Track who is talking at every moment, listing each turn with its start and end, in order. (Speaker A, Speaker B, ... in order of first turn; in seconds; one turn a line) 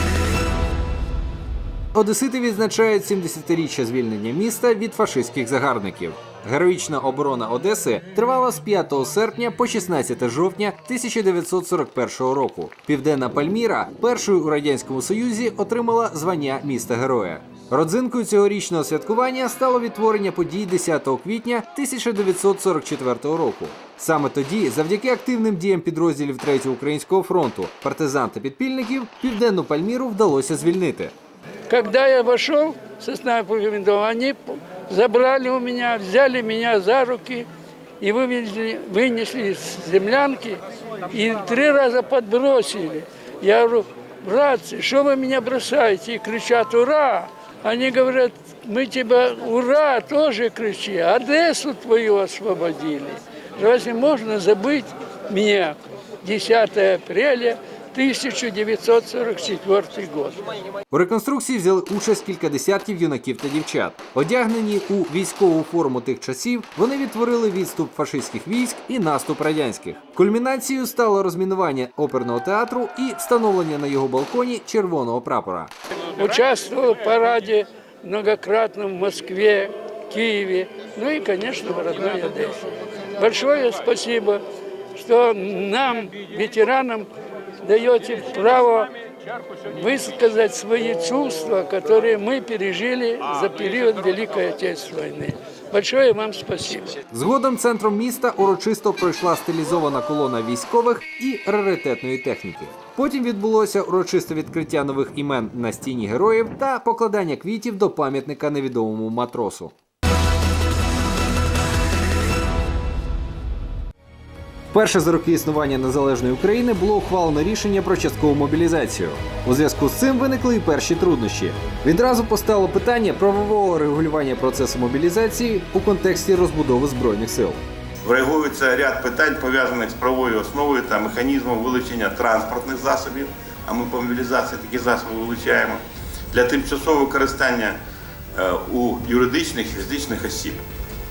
Speaker A: 1.9-31.1
Speaker B: 31.7-37.5
Speaker B: 38.0-60.4
Speaker A: 60.9-75.7
Speaker B: 76.2-82.6
Speaker B: 83.2-84.4
Speaker B: 85.0-87.1
Speaker B: 87.6-88.9
Speaker B: 89.7-97.0
Speaker A: 97.1-109.8
Speaker A: 114.7-127.6
Speaker C: 128.0-135.8
Speaker C: 136.3-137.8
Speaker C: 138.3-140.6